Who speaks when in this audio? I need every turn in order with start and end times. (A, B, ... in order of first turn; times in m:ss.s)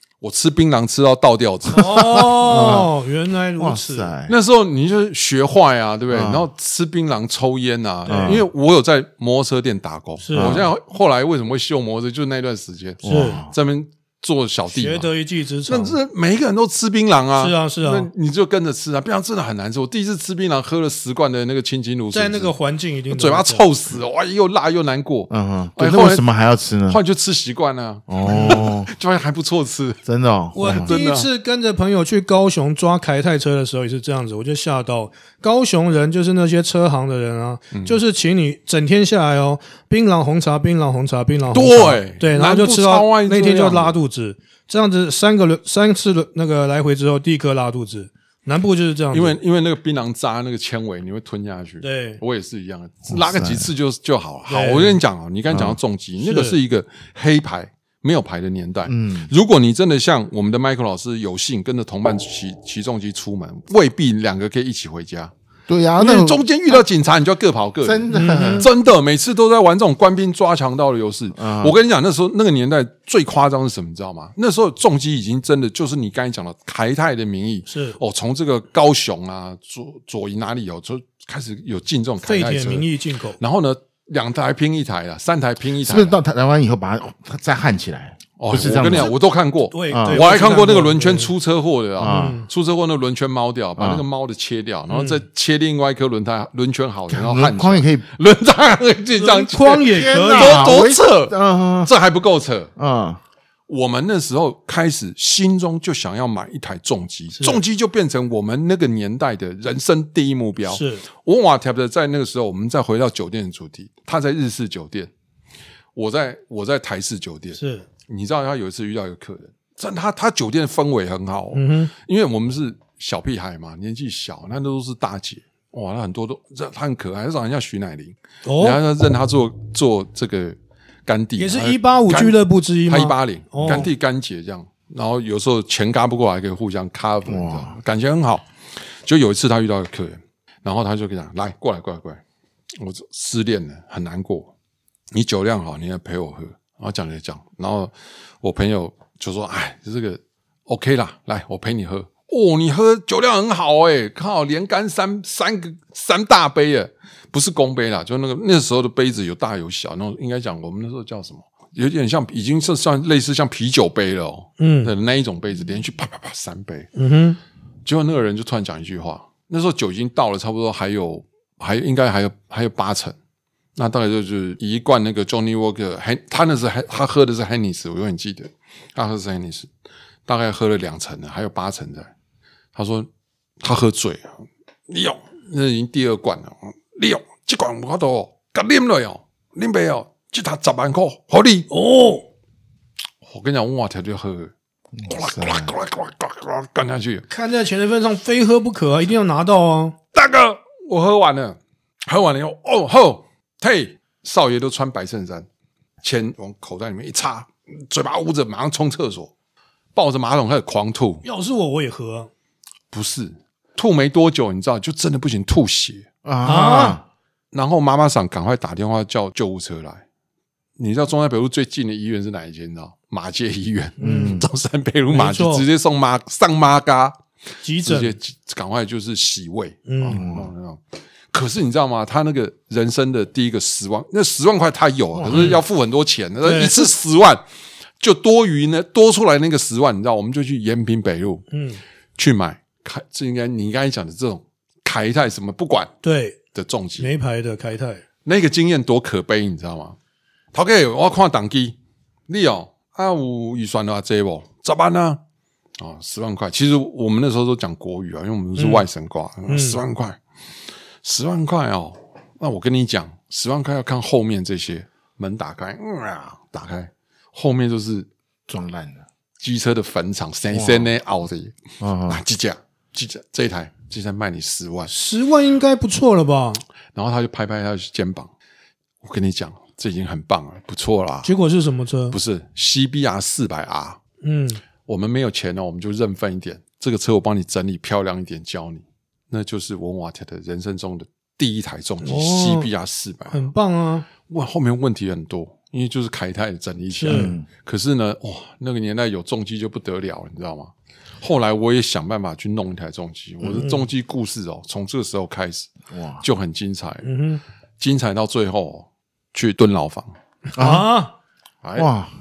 0:00.2-0:02.3 A
0:01.7-0:02.9 B
0:01.7-0:04.1 C
0:03.6-0:04.3 B
0:04.3-0:15.1 A
0:06.1-0:06.5 B
0:08.1-0:08.4 C
0:08.1-0:08.5 B
0:10.2-0:10.7 C
0:10.4-0:10.7 B
0:13.0-0:13.5 B
0:13.0-0:13.4 C
0:14.7-0:16.0 C
0:15.7-0:22.6 A
0:17.4-0:18.1 C
0:22.1-0:23.7 C
0:23.1-0:26.3 A
0:25.3-0:27.0 B
0:26.9-0:30.0 A
0:28.1-0:28.9 B
0:30.1-0:30.9 B
0:30.5-0:49.4 C
0:30.6-0:31.3 A
0:37.7-0:38.0 A
0:41.5-0:44.0 A
0:49.1-1:05.3 A
0:51.8-0:52.2 C
0:53.1-0:53.7 B
0:54.5-0:55.0 C
0:55.5-0:55.8 B
0:56.2-0:56.6 C
0:58.9-0:59.3 B
1:05.7-1:06.8 B
1:06.0-1:26.2 A
1:07.8-1:08.7 B
1:08.2-1:08.6 C
1:11.4-1:11.8 B
1:17.7-1:18.0 C
1:22.2-1:23.4 C
1:25.9-1:29.1 B
1:28.4-1:42.7 A
1:29.7-1:31.3 C
1:29.9-1:30.2 B
1:32.0-1:32.4 B
1:32.0-1:32.5 C
1:33.8-1:34.0 B
1:34.9-1:35.2 C
1:37.1-1:38.0 B
1:39.2-1:40.7 C
1:39.9-1:41.9 B
1:42.8-1:43.2 B
1:43.7-1:55.1 A
1:50.6-1:51.0 C
1:56.0-2:18.5 A
1:57.6-1:57.9 C
2:01.5-2:01.9 C
2:08.4-2:08.8 C
2:11.4-2:13.9 C
2:17.3-2:17.8 B
2:19.0-2:22.2 A
2:22.8-2:24.5 A
2:25.1-2:46.9 A
2:44.6-2:44.9 C
2:47.0-2:47.4 C
2:47.9-2:53.2 A
2:53.8-2:59.7 A
3:00.3-3:02.1 A
3:02.8-3:03.1 A
3:03.6-3:04.4 A
3:04.9-3:11.7 A
3:11.7-3:12.3 C
3:13.2-3:14.5 A
3:15.0-3:15.7 B
3:15.1-3:17.3 A
3:17.3-3:20.0 C
3:20.1-3:25.5 A
3:26.0-3:29.3 A
3:30.0-3:31.2 A
3:31.2-3:32.3 C
3:32.9-3:36.1 A
3:36.2-3:37.0 B
3:36.4-3:37.0 C
3:37.5-3:40.0 A
3:40.8-3:47.2 A
3:44.0-3:44.4 C
3:44.0-3:44.5 B
3:45.1-3:45.6 C
3:47.6-3:48.2 C
3:47.8-3:57.4 A
3:49.9-3:50.2 C
3:50.1-3:50.5 B
3:55.2-3:55.6 B
3:56.4-3:56.9 C
3:58.0-4:01.4 A
4:01.5-4:01.8 C
4:02.2-4:05.9 A
4:06.0-4:06.4 C
4:06.5-4:07.1 A
4:07.0-4:08.0 C
4:08.2-4:10.0 A
4:10.5-4:11.8 A
4:12.3-4:15.2 A
4:15.8-4:20.2 A
4:18.6-4:18.8 C
4:19.5-4:19.8 C
4:21.0-4:28.1 A
4:28.5-4:29.0 B
4:29.4-4:34.9 A
4:30.5-4:30.9 B
4:31.8-4:32.2 B
4:34.9-4:36.6 C
4:37.0-4:38.3 A
4:39.0-4:41.3 A
4:41.2-4:42.2 C
4:42.1-4:44.0 A
4:44.2-4:44.6 C
4:44.9-4:53.5 A
4:52.0-4:52.7 C
4:53.3-4:54.1 C
4:54.3-5:05.7 A
4:56.9-4:57.4 C
4:57.1-4:57.5 B
5:03.5-5:03.9 C
5:05.9-5:06.2 B
5:06.2-5:07.1 A
5:07.0-5:07.4 C
5:07.8-5:10.1 A
5:10.5-5:11.1 C
5:10.6-5:10.9 B
5:11.6-5:11.9 A
5:11.8-5:12.1 B